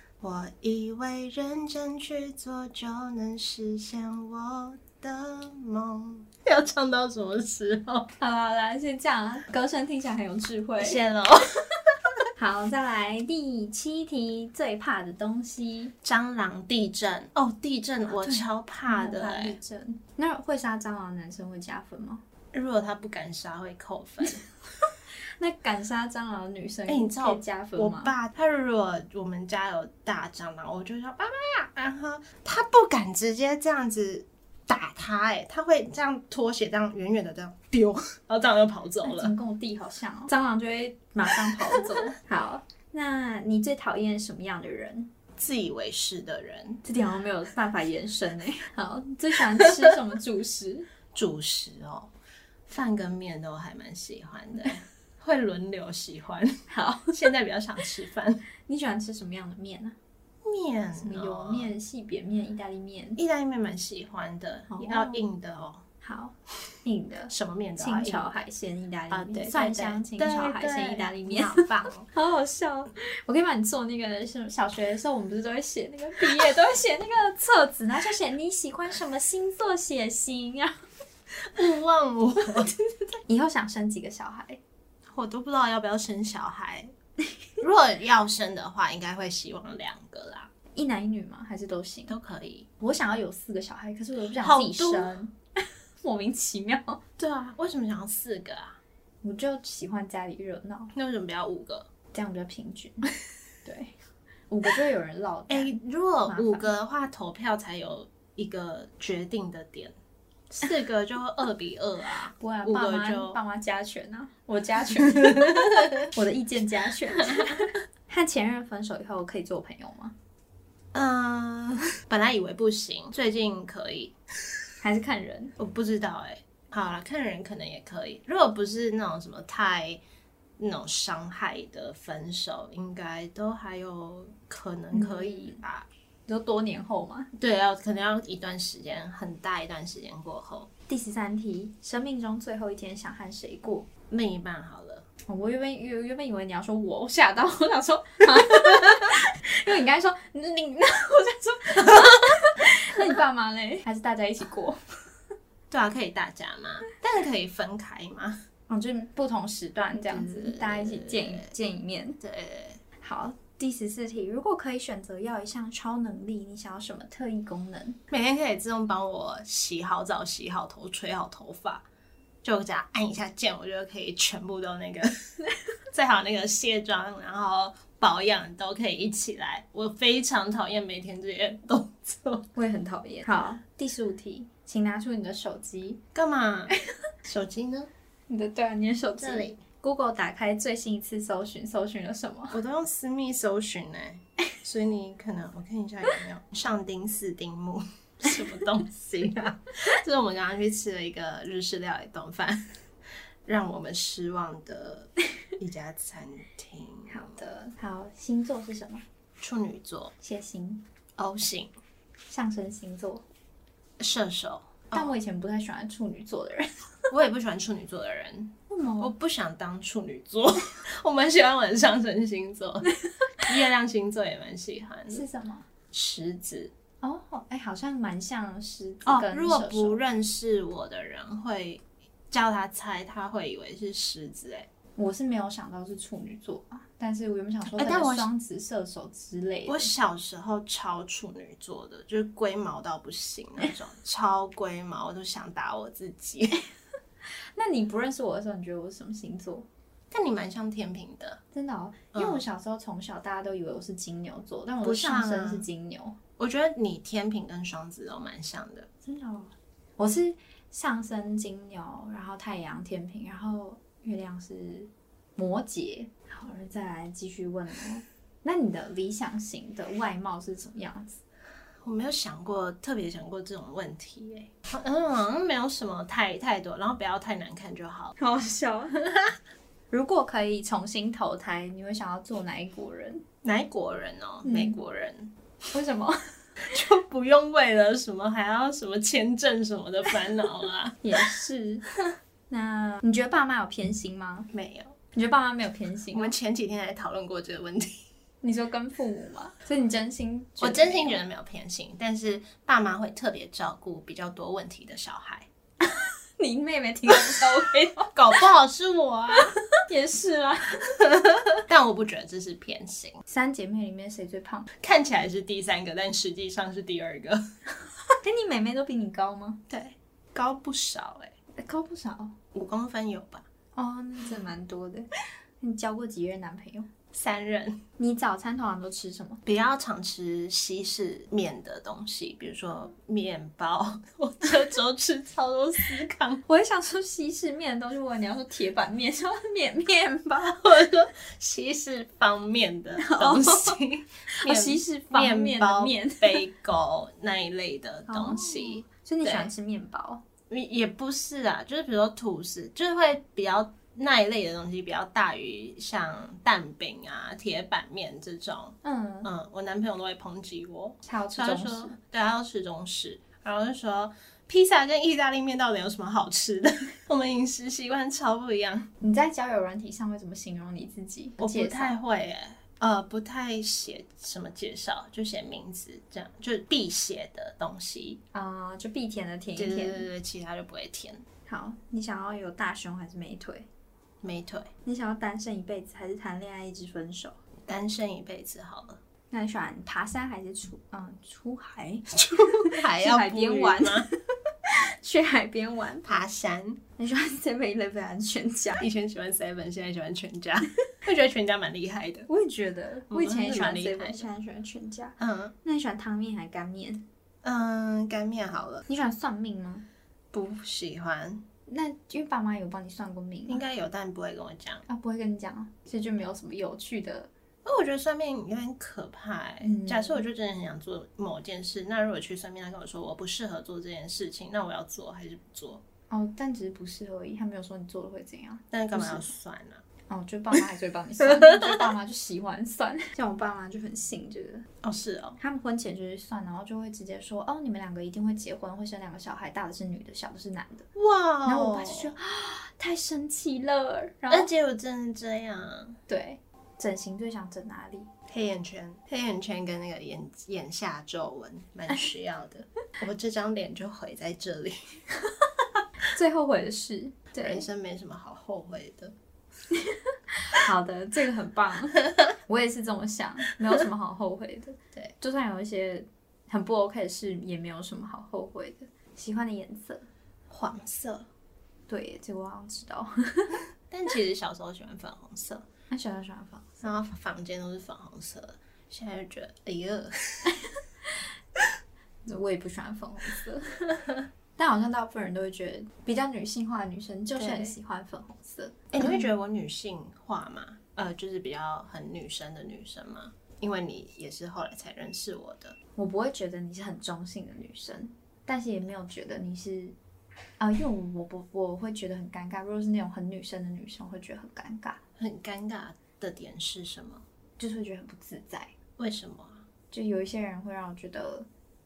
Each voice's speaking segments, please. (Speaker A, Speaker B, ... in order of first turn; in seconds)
Speaker A: 0.2-8.1, 10.8-11.4, 16.0-19.6, 22.5-24.5, 26.9-39.3, 45.4-46.8, 51.1-52.1, 52.7-58.4, 60.4-61.7, 63.2-65.8, 67.3-68.3, 69.1-72.1, 81.5-82.7, 85.1-86.9, 87.6-90.5, 92.1-92.7, 94.2-95.2, 97.2-98.8, 100.9-101.9, 105.5-109.9, 110.5-113.4, 115.0-116.1, 117.3-117.6, 120.9-124.1, 125.6-130.0, 130.6-135.9, 137.4-140.7, 144.1-145.1, 155.7-158.4, 159.9-161.5, 162.2-162.8, 168.1-171.8, 172.4-175.1, 175.9-182.4, 186.1-186.7, 187.2-187.9, 189.2-189.6, 192.5-202.7, 203.4-207.3, 209.4-210.1, 211.2-211.7, 214.0-215.2, 217.1-225.2, 225.9-226.7, 229.1-234.7, 237.7-238.3, 239.7-246.6, 250.1-251.4, 252.1-252.4, 254.8-255.7, 256.4-258.9, 271.8-278.1, 283.4-285.3, 286.6-291.0, 294.5-294.9, 296.1-298.0, 300.6-305.5, 308.1-309.5, 310.9-313.2, 314.8-317.4, 319.7-321.3, 322.5-323.4, 327.1-327.8, 329.4-336.4, 340.6-349.5, 350.5-368.9, 371.4-378.2, 379.6-381.2, 384.2-384.7, 387.7-389.0, 392.1-394.1, 396.0-396.8, 398.8-402.3, 403.1-404.2, 405.2-405.5, 407.4-408.8, 410.3-411.4, 413.5-414.8, 417.6-425.8, 428.7-429.8, 431.2-431.9, 434.8-435.4, 440.9-442.1, 444.3-446.0, 448.3-455.0, 457.4-459.1, 470.5-471.3, 473.9-475.6, 476.8-480.6, 487.4-487.8, 488.9-495.8, 505.2-507.2, 509.0-509.6
Speaker B: 8.2-11.0, 12.4-15.9, 18.1-22.2, 25.4-28.1, 39.0-45.1, 46.8-50.9, 56.7-57.2, 58.7-60.0, 61.0-63.2, 64.7-65.2, 66.0-80.8, 82.4-84.6, 90.7-92.2, 92.8-95.3, 96.0-97.0, 99.2-100.9, 102.1-103.1, 103.6-103.9, 104.5-106.7, 112.4-120.1, 124.8-125.5, 134.9-135.6, 136.3-137.3, 140.9-143.9, 145.3-154.8, 158.7-162.2, 163.0-168.0, 182.6-186.0, 188.3-192.6, 207.1-209.0, 210.2-210.8, 212.3-213.2, 214.9-216.7, 218.7-219.1, 225.1-225.7, 227.0-230.0, 234.9-239.9, 247.6-249.7, 251.5-256.2, 259.1-271.2, 278.2-279.1, 279.9-283.2, 284.4-284.8, 285.7-286.3, 291.0-291.8, 292.5-294.5, 295.1-296.3, 298.4-301.2, 305.8-308.1, 309.9-310.8, 313.3-314.7, 318.2-319.6, 321.6-322.3, 323.7-325.1, 325.6-326.9, 328.0-329.4, 336.5-340.6, 343.0-343.8, 344.3-346.4, 348.1-350.2, 358.8-359.3, 361.1-361.9, 369.0-371.9, 378.3-380.1, 381.5-383.7, 384.8-387.4, 389.3-394.1, 394.6-396.2, 397.0-398.8, 402.3-407.0, 408.9-409.9, 411.7-413.6, 414.9-417.3, 419.6-420.2, 426.1-429.2, 430.1-434.7, 435.4-440.9, 441.4-444.5, 446.1-448.1, 456.1-457.6, 459.7-470.1, 471.9-473.6, 475.9-476.8, 482.2-483.9, 484.6-489.3, 495.9-499.9, 500.6-505.0, 507.6-508.7, 509.9-511.5